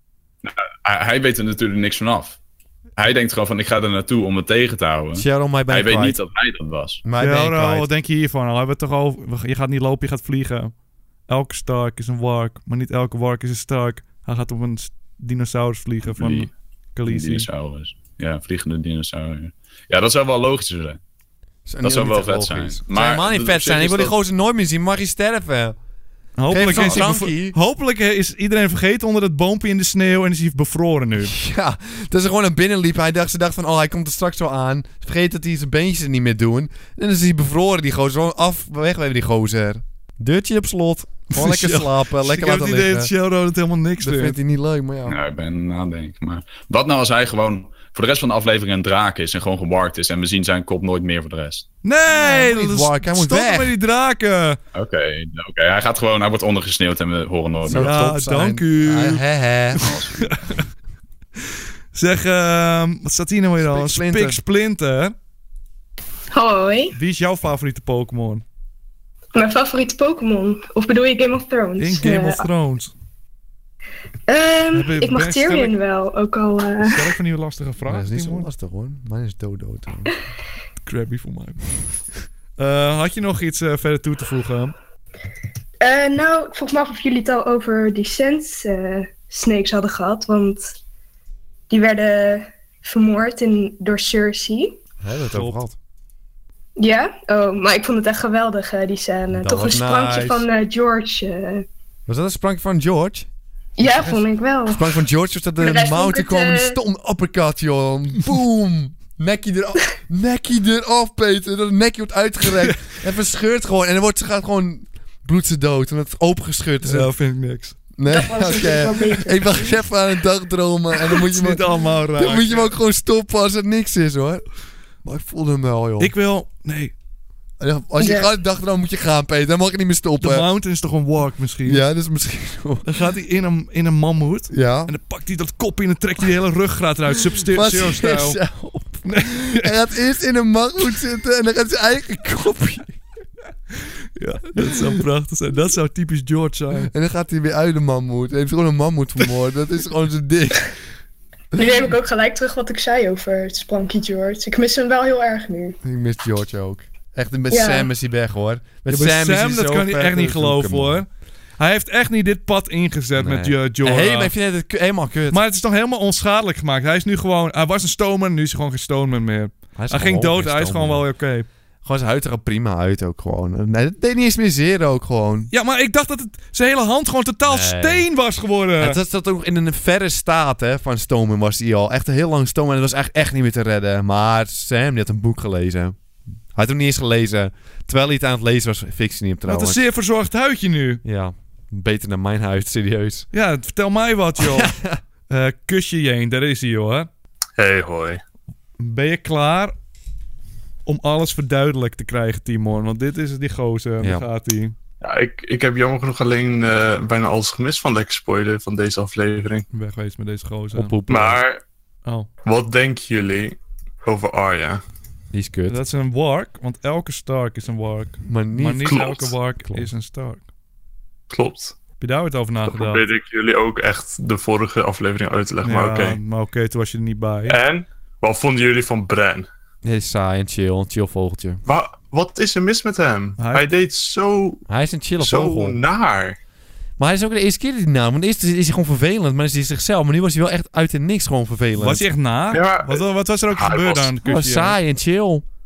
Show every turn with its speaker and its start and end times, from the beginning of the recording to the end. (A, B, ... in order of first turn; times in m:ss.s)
0:00.4-0:02.4 A
0:03.0-0:07.0 A
0:05.1-0:06.2 B
0:07.0-0:07.9 B
0:07.2-0:10.7 C
0:11.3-0:17.5 C
0:16.2-0:16.5 A
0:17.1-0:21.0 A
0:21.7-0:25.8 B
0:21.8-0:24.2 A
0:26.4-0:31.3 C
0:26.5-0:27.6 B
0:26.7-0:27.0 A
0:31.2-0:43.1 B
0:41.3-0:44.4 C
0:44.0-0:45.2 B
0:45.1-0:51.7 A
0:51.8-0:54.6 C
0:52.1-0:53.8 B
0:54.7-0:58.0 A
0:57.6-0:59.8 B
0:57.7-0:59.2 C
0:59.8-1:00.6 C
0:59.8-1:00.3 A
1:01.9-1:05.2 C
1:03.6-1:04.4 B
1:06.3-1:07.0 D
1:06.9-1:08.4 C
1:09.4-1:12.5 D
1:11.8-1:12.9 C
1:14.3-1:17.2 D
1:14.7-1:15.8 C
1:16.8-1:18.5 C
1:17.9-1:20.2 B
1:20.8-1:21.7 C
1:22.6-1:24.8 C
1:25.8-1:30.8 D
1:31.7-1:34.8 D
1:35.0-1:35.8 B
1:35.3-1:35.6 C
1:36.8-1:41.7 D
1:39.3-1:40.4 B
1:42.1-1:43.3 B
1:43.8-1:45.1 D
1:44.7-1:57.1 B
1:45.6-1:46.8 D
1:56.8-1:57.8 C
1:58.0-2:04.4 B
1:58.1-1:59.8 D
2:01.3-2:02.8 C
2:05.0-2:06.1 B
2:06.0-2:06.9 C
2:07.6-2:10.5 B
2:08.0-2:08.3 D
2:10.2-2:11.8 C
2:11.7-2:12.8 B
2:12.8-2:18.4 C
2:14.5-2:14.9 B
2:17.3-2:23.0 B
2:19.1-2:19.7 C
2:24.2-2:26.9 C
2:24.6-2:24.9 B
2:26.8-2:30.7 B
2:31.6-2:35.8 D
2:35.8-2:41.0 B
2:37.5-2:37.9 D
2:38.9-2:41.1 C
2:41.6-2:44.3 C
2:43.2-2:45.4 B
2:45.3-2:51.5 C
2:49.8-2:51.1 B
2:51.8-2:55.5 B
2:55.5-2:59.0 C
2:57.4-2:58.1 B
2:58.8-3:06.0 B
3:06.5-3:09.8 B
3:09.5-3:11.0 C
3:11.0-3:13.3 B
3:13.3-3:14.7 C
3:14.4-3:15.0 B
3:15.3-3:17.1 C
3:17.6-3:18.2 E
3:18.8-3:19.7 C
3:20.9-3:24.8 C
3:25.0-3:29.7 E
3:29.7-3:31.0 C
3:30.7-3:31.4 B
3:31.1-3:31.6 E
3:32.4-3:34.8 E
3:35.3-3:35.8 B
3:35.7-3:40.4 C
3:38.3-3:39.1 B
3:38.9-3:39.3 E
3:39.6-3:39.9 B
3:41.3-3:41.8 E
3:42.0-3:43.0 C
3:42.7-3:46.2 E
3:45.6-3:47.6 C
3:47.5-3:49.5 E
3:49.8-3:51.6 B
3:51.6-3:54.6 E
3:53.4-3:53.7 C
3:54.7-3:55.8 B
3:55.2-3:56.4 E
3:57.0-4:02.0 B
4:01.8-4:04.8 C
4:02.5-4:04.1 E
4:04.2-4:05.4 B